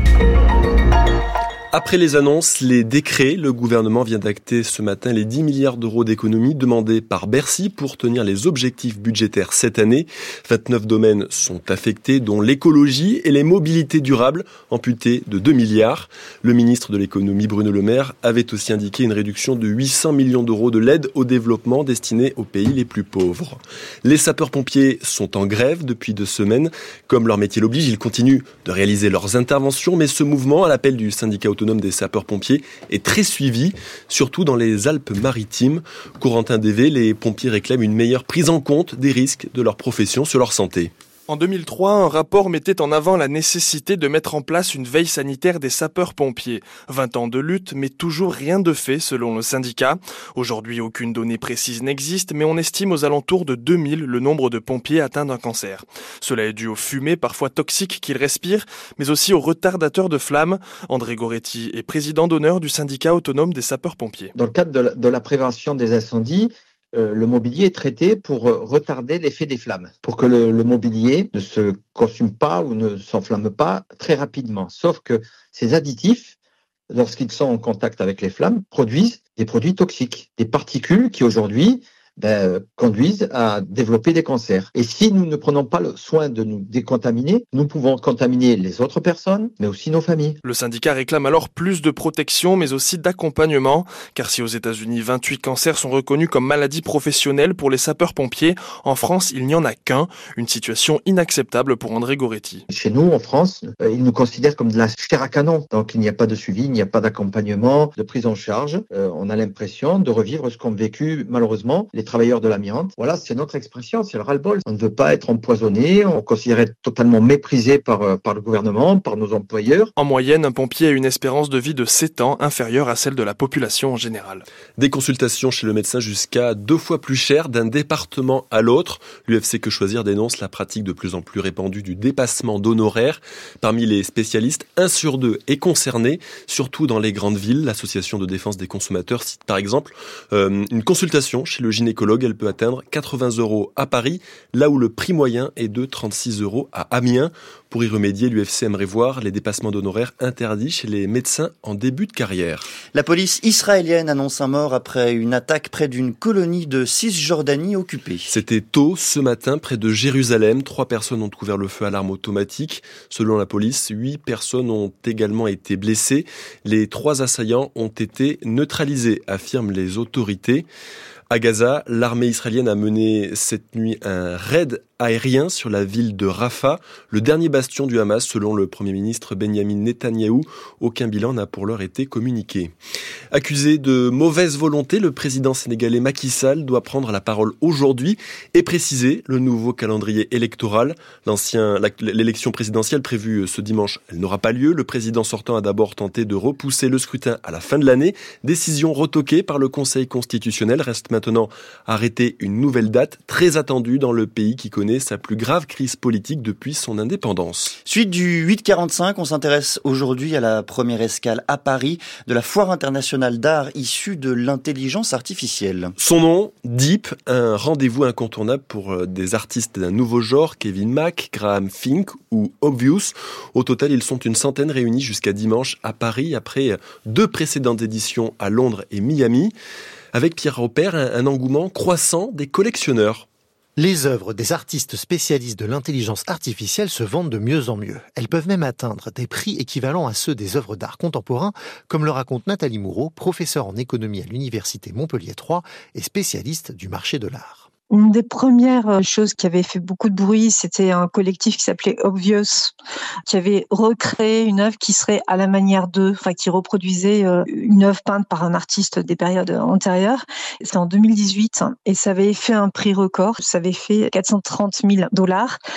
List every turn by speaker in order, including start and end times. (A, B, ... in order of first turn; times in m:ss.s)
0:01.7-0:40.9 A
0:41.3-1:04.3 B
1:04.3-1:16.3 C
1:16.9-1:30.4 C
1:30.4-1:42.6 B
1:42.7-1:59.9 C
2:00.0-2:04.4 B
2:04.8-2:32.7 A
2:32.9-2:38.4 D
2:38.3-2:50.7 A
2:51.3-3:02.7 A
3:03.3-3:27.7 A
3:27.8-3:35.9 D
3:36.0-3:49.5 A
3:50.1-3:53.3 A
3:53.8-4:07.6 E
4:07.9-4:12.7 F
4:13.3-4:25.6 F